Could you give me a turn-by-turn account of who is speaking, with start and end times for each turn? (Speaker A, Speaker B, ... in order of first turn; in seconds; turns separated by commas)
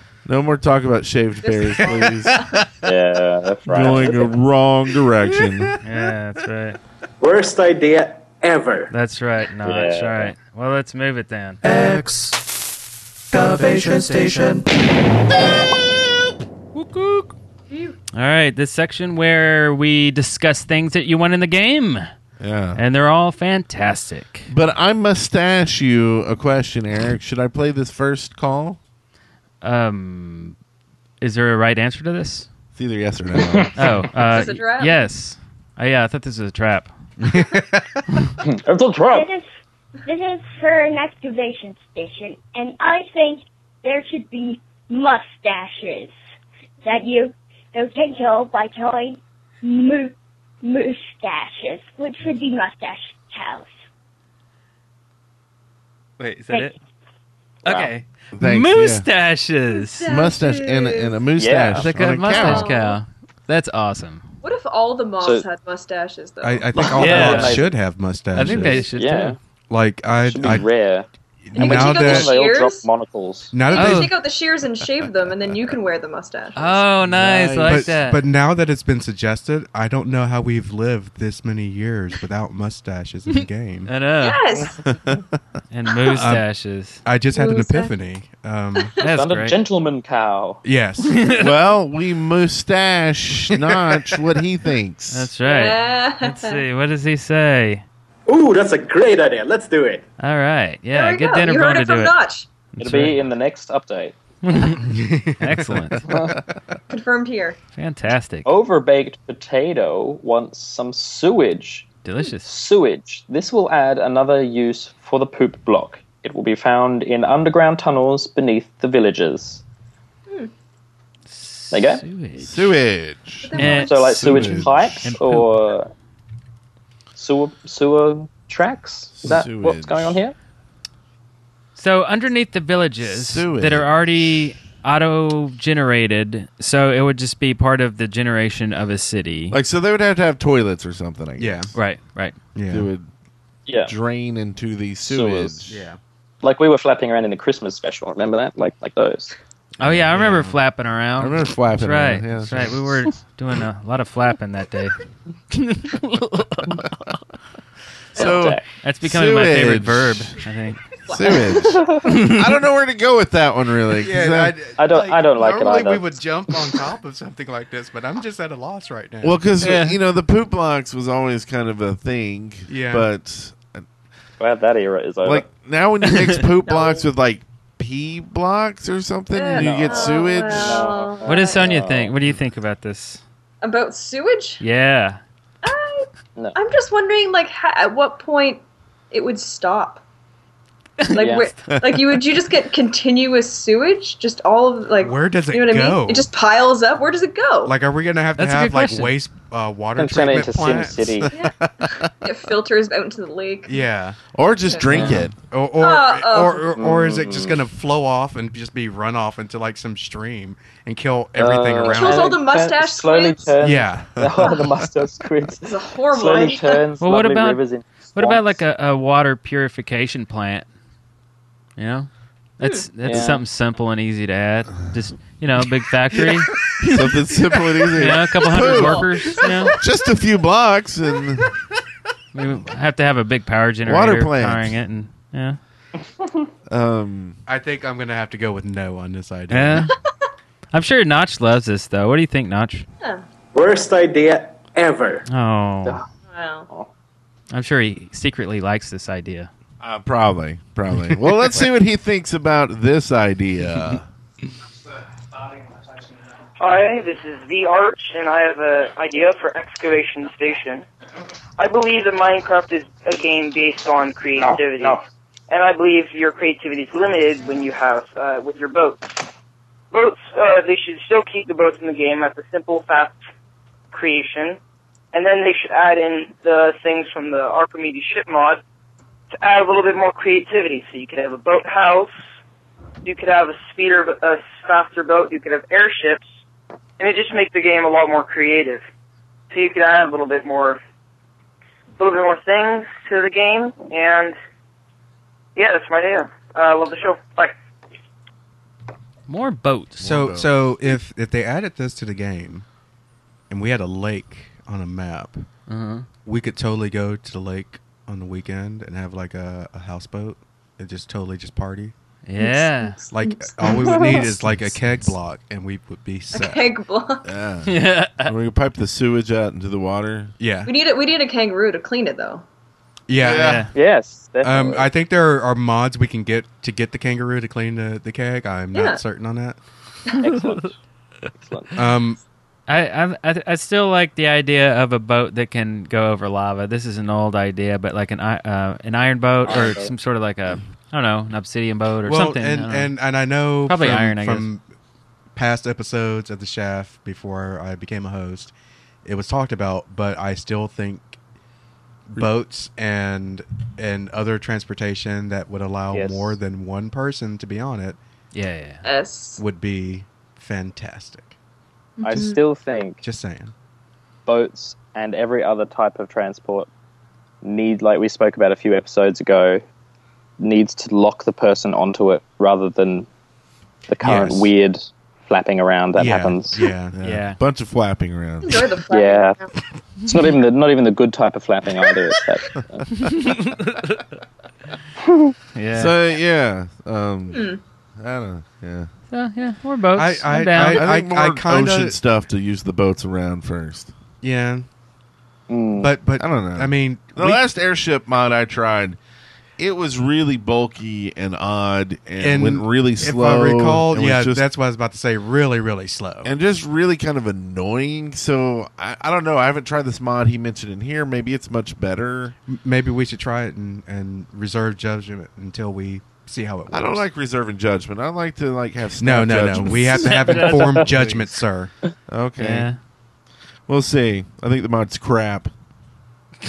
Speaker A: 0.2-2.5, Speaker B: 1.4-2.6, Speaker C: 2.8-4.4, Speaker A: 3.7-5.8, Speaker D: 5.8-6.8, Speaker E: 7.2-8.9, Speaker D: 8.9-11.8, Speaker C: 9.6-10.3, Speaker D: 13.8-14.6, Speaker D: 16.7-17.3, Speaker B: 17.7-17.9, Speaker D: 18.1-22.1, Speaker A: 22.4-22.8, Speaker D: 22.7-24.5, Speaker A: 24.5-28.8, Speaker D: 29.6-30.6, Speaker D: 31.2-32.5, Speaker A: 32.8-34.1, Speaker C: 33.4-33.9, Speaker D: 33.8-36.9, Speaker B: 34.2-35.0, Speaker F: 37.2-38.2, Speaker C: 38.4-39.3, Speaker G: 39.1-39.5, Speaker G: 40.0-46.1, Speaker G: 46.8-53.7, Speaker D: 56.2-56.7, Speaker C: 57.6-57.9, Speaker D: 57.6-60.1, Speaker A: 58.3-59.0, Speaker B: 59.9-61.2, Speaker A: 60.1-62.7, Speaker C: 61.4-61.9, Speaker D: 61.8-64.3, Speaker B: 62.3-63.0, Speaker B: 64.4-67.4, Speaker C: 65.2-65.5, Speaker F: 66.4-68.9, Speaker C: 66.8-67.7, Speaker D: 67.0-67.6, Speaker D: 68.3-69.3, Speaker C: 68.4-69.4, Speaker F: 69.7-70.7, Speaker C: 70.2-73.5, Speaker F: 71.5-72.3, Speaker B: 71.5-72.9, Speaker F: 73.5-74.1, Speaker B: 73.6-76.8, Speaker D: 73.7-74.1, Speaker D: 76.5-78.2, Speaker A: 77.0-78.0, Speaker F: 77.6-83.9, Speaker D: 83.9-84.6, Speaker B: 84.2-84.8, Speaker A: 84.8-85.2, Speaker D: 85.7-87.0, Speaker F: 86.1-86.5, Speaker F: 87.0-89.0, Speaker B: 87.3-87.9, Speaker D: 89.0-89.6, Speaker C: 89.1-90.6, Speaker F: 90.6-91.2, Speaker D: 91.0-91.5, Speaker A: 91.4-95.3, Speaker D: 95.1-97.8, Speaker B: 95.4-96.6, Speaker E: 98.3-100.0, Speaker D: 100.2-102.2, Speaker B: 100.9-102.5, Speaker D: 102.8-103.2, Speaker C: 102.8-104.2, Speaker D: 104.4-106.1, Speaker F: 104.8-106.1, Speaker C: 106.1-106.3, Speaker B: 106.9-107.6, Speaker D: 107.8-108.5, Speaker C: 108.4-111.9, Speaker D: 112.0-112.5, Speaker C: 112.4-119.6, Speaker D: 121.3-122.8, Speaker C: 121.7-122.0, Speaker A: 122.4-125.0, Speaker B: 123.4-124.2, Speaker D: 123.5-125.5, Speaker C: 123.7-125.9, Speaker C: 127.2-130.3, Speaker A: 129.2-130.2, Speaker D: 131.8-139.6, Speaker A: 133.0-134.1, Speaker A: 139.5-141.6, Speaker F: 141.4-141.7, Speaker D: 141.7-142.3, Speaker F: 142.5-142.9, Speaker A: 142.7-143.1, Speaker C: 143.7-143.9, Speaker A: 143.8-145.7, Speaker C: 145.0-145.8, Speaker F: 145.7-146.0, Speaker C: 146.4-149.3, Speaker A: 149.8-150.6, Speaker D: 149.8-154.9, Speaker A: 151.2-153.1, Speaker D: 155.5-157.1, Speaker A: 158.1-160.4, Speaker C: 158.2-158.7, Speaker D: 158.8-160.8, Speaker A: 161.0-164.6, Speaker B: 161.1-161.5, Speaker C: 161.8-162.1, Speaker D: 162.0-162.5, Speaker F: 163.9-169.4, Speaker C: 164.8-166.2, Speaker A: 169.2-173.8, Speaker D: 169.6-170.0, Speaker F: 172.7-173.1, Speaker C: 174.4-175.5, Speaker A: 175.2-180.8, Speaker B: 176.7-177.0, Speaker B: 179.3-181.7, Speaker C: 179.5-182.2, Speaker D: 181.2-183.2, Speaker B: 183.6-184.6, Speaker D: 184.6-185.2, Speaker B: 185.6-190.0, Speaker B: 191.1-197.7, Speaker C: 191.2-191.5, Speaker F: 195.0-196.3, Speaker F: 197.7-201.3, Speaker D: 198.3-199.2, Speaker C: 199.9-201.3, Speaker B: 201.3-203.8, Speaker F: 203.7-204.2, Speaker A: 204.3-205.3, Speaker B: 204.7-205.1, Speaker C: 204.9-205.2, Speaker F: 204.9-212.4, Speaker B: 205.8-206.7, Speaker C: 206.8-207.6, Speaker C: 211.3-218.6, Speaker B: 211.8-213.5, Speaker F: 213.6-214.6, Speaker B: 215.6-216.8, Speaker D: 217.0-217.6, Speaker D: 218.1-220.7, Speaker D: 221.8-227.2, Speaker B: 222.6-222.8, Speaker C: 223.0-223.4, Speaker A: 226.8-229.1, Speaker D: 227.9-229.7, Speaker B: 228.7-229.7, Speaker A: 229.7-231.5, Speaker D: 232.3-235.6, Speaker A: 233.8-234.8, Speaker A: 236.7-237.4, Speaker F: 237.5-239.9, Speaker D: 239.5-239.9, Speaker D: 240.7-242.8, Speaker E: 243.5-245.2, Speaker D: 245.3-246.0, Speaker B: 246.3-246.7, Speaker D: 247.5-249.5, Speaker A: 249.8-254.0, Speaker H: 256.6-260.8, Speaker H: 261.6-269.2, Speaker C: 264.4-264.9, Speaker H: 269.9-273.2, Speaker H: 273.9-274.6, Speaker H: 275.1-278.6, Speaker H: 279.3-282.1, Speaker H: 283.0-286.2, Speaker H: 287.0-288.8, Speaker H: 289.5-290.8, Speaker H: 292.0-294.3, Speaker H: 295.6-297.5, Speaker D: 299.3-300.1, Speaker A: 300.0-300.5, Speaker F: 300.0-302.6, Speaker F: 303.5-305.4, Speaker D: 305.7-306.1, Speaker F: 306.2-311.9, Speaker D: 312.2-313.0, Speaker B: 312.4-314.4, Speaker F: 313.1-316.7, Speaker B: 316.3-317.2, Speaker A: 317.2-320.3, Speaker D: 317.6-318.3, Speaker F: 320.4-320.7, Speaker B: 320.6-322.4, Speaker F: 323.1-323.7, Speaker A: 323.2-323.7, Speaker D: 323.3-323.7, Speaker C: 323.7-324.9, Speaker F: 324.4-329.6, Speaker B: 328.7-329.0, Speaker C: 330.2-330.7, Speaker C: 331.4-331.7, Speaker F: 331.7-332.2, Speaker D: 332.7-342.9, Speaker C: 339.4-339.9, Speaker F: 342.0-344.6, Speaker D: 343.6-344.5, Speaker F: 345.3-348.5, Speaker F: 349.0-351.2, Speaker F: 352.1-358.0, Speaker C: 355.9-356.4, Speaker D: 358.3-358.8, Speaker B: 358.8-359.4, Speaker F: 359.4-361.3, Speaker B: 362.0-362.4, Speaker C: 362.0-363.0, Speaker F: 363.0-363.5, Speaker C: 364.2-366.7, Speaker C: 367.4-369.6, Speaker C: 370.4-373.1, Speaker C: 373.9-376.7, Speaker F: 374.0-374.5, Speaker F: 375.9-376.9, Speaker A: 376.9-378.6, Speaker D: 377.0-377.4, Speaker B: 378.4-379.5, Speaker C: 378.9-379.4, Speaker C: 380.0-382.9, Speaker D: 383.0-384.1, Speaker D: 385.5-385.9, Speaker A: 385.7-388.9, Speaker B: 387.3-387.6, Speaker D: 389.1-390.8, Speaker F: 389.9-392.0, Speaker A: 390.6-393.9, Speaker F: 394.2-394.6, Speaker C: 395.5-395.9, Speaker F: 395.8-397.4, Speaker A: 396.2-399.0, Speaker A: 399.6-404.4, Speaker F: 402.2-406.3, Speaker A: 406.2-412.4, Speaker F: 412.5-417.1, Speaker A: 416.7-420.2, Speaker F: 419.0-421.7, Speaker D: 419.9-421.3, Speaker A: 422.1-422.7, Speaker D: 422.4-422.8, Speaker A: 423.7-425.5